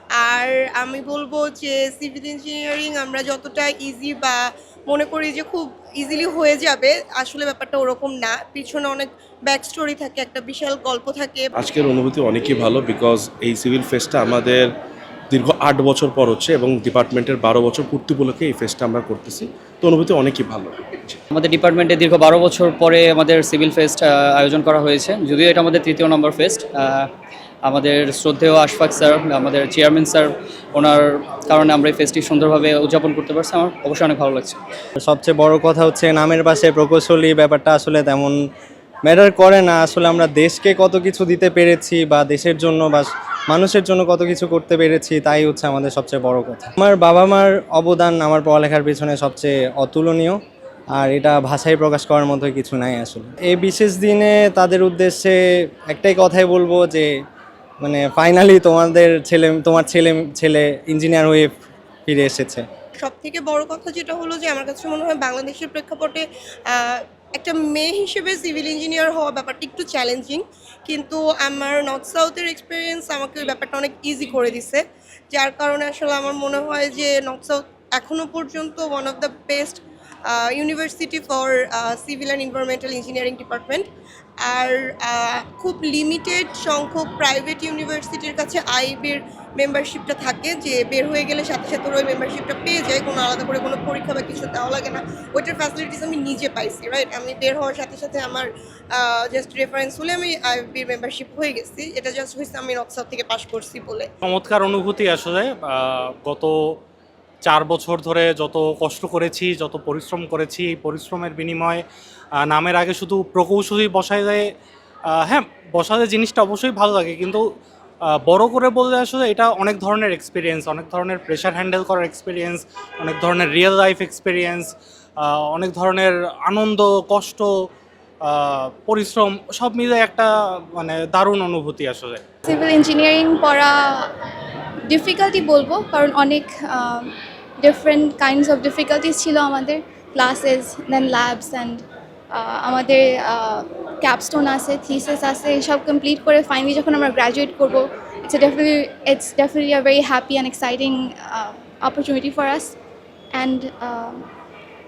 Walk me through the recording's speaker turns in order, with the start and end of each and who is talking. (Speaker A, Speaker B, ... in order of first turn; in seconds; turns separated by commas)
Speaker A: 0.2-11.5, Speaker B: 11.6-14.7, Speaker B: 15.3-21.0, Speaker C: 21.3-27.1, Speaker C: 27.6-34.6, Speaker D: 35.0-38.4, Speaker D: 39.0-50.4, Speaker D: 50.9-57.1, Speaker D: 57.8-61.5, Speaker D: 62.1-62.6, Speaker A: 63.0-83.9, Speaker A: 84.4-104.1, Speaker E: 104.2-106.8, Speaker E: 107.4-111.8, Speaker E: 112.4-114.5, Speaker E: 115.1-117.5, Speaker E: 118.0-127.7, Speaker E: 128.2-132.2, Speaker F: 132.4-134.2, Speaker F: 134.9-152.8, Speaker F: 153.3-154.3